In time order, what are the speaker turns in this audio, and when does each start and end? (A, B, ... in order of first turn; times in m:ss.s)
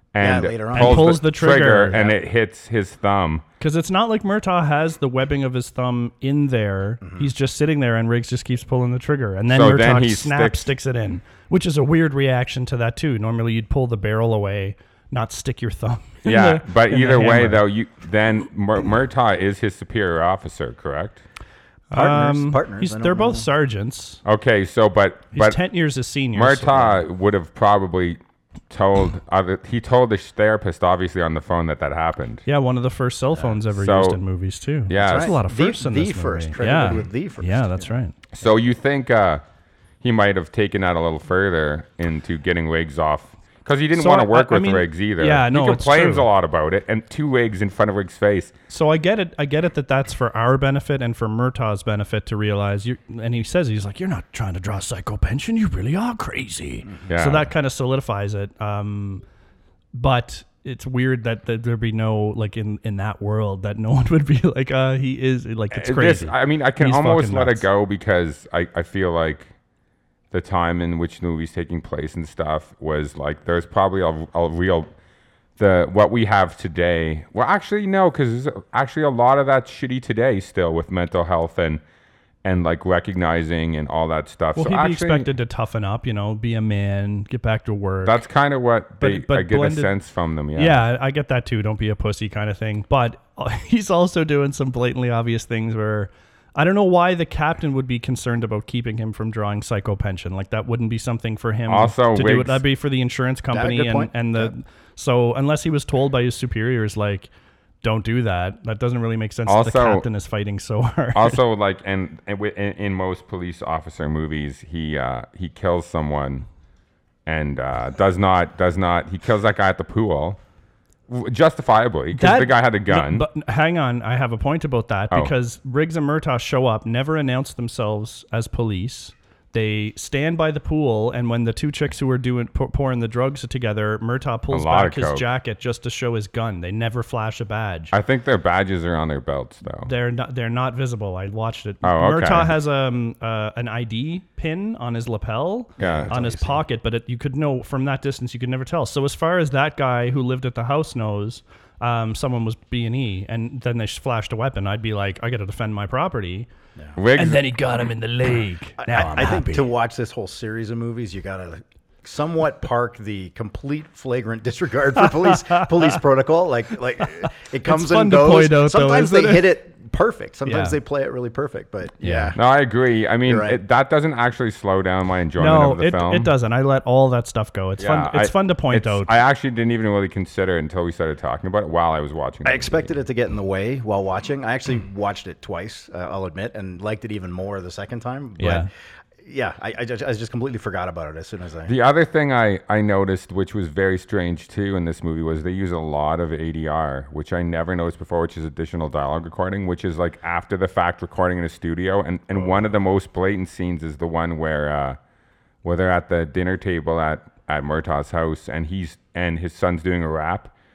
0:00.1-0:03.4 A
0:00.2-0:01.2 B
0:00.7-0:02.1 C
0:03.6-0:17.6 C
0:07.0-0:07.3 B
0:09.5-0:10.7 A
0:16.2-0:21.2 A
0:21.9-0:24.2 C
0:21.9-0:23.5 B
0:24.2-0:25.6 A
0:25.3-0:27.0 C
0:26.3-0:28.2 A
0:28.7-0:32.4 A
0:32.4-0:38.2 C
0:33.7-0:34.2 A
0:34.9-0:35.4 A
0:35.0-0:37.9 B
0:38.3-0:39.4 A
0:40.0-0:48.5 A
0:43.9-0:46.3 C
0:48.7-0:59.2 C
0:57.1-0:57.5 A
0:59.9-1:07.7 C
1:05.7-1:09.5 A
1:10.3-1:14.9 A
1:15.6-1:21.8 A
1:22.4-1:25.3 A
1:24.6-1:28.2 C
1:28.0-1:30.8 A
1:29.0-1:29.9 C
1:30.6-1:47.3 C
1:41.7-1:42.6 A
1:43.5-1:44.5 B
1:47.8-1:51.4 C
1:49.5-1:50.0 A
1:51.1-1:56.4 A
1:57.2-2:00.4 A
2:01.1-2:03.2 A
2:02.1-2:17.9 C
2:14.5-2:15.2 A
2:17.9-2:19.9 A
2:19.8-2:36.5 C
2:21.8-2:22.6 A
2:25.8-2:26.1 A
2:25.8-2:26.6 B
2:37.0-2:37.5 A
2:37.1-2:39.7 C
2:38.8-2:52.4 B
2:47.6-2:49.6 C
2:50.4-2:50.8 C
2:52.0-2:52.3 C
2:52.3-2:56.3 A
2:53.2-2:53.6 B
2:55.4-2:59.1 C
2:57.8-3:02.8 A
3:02.4-3:08.7 B
3:08.4-3:08.7 C
3:09.2-3:11.7 B
3:11.6-3:25.0 A
3:25.6-3:30.5 A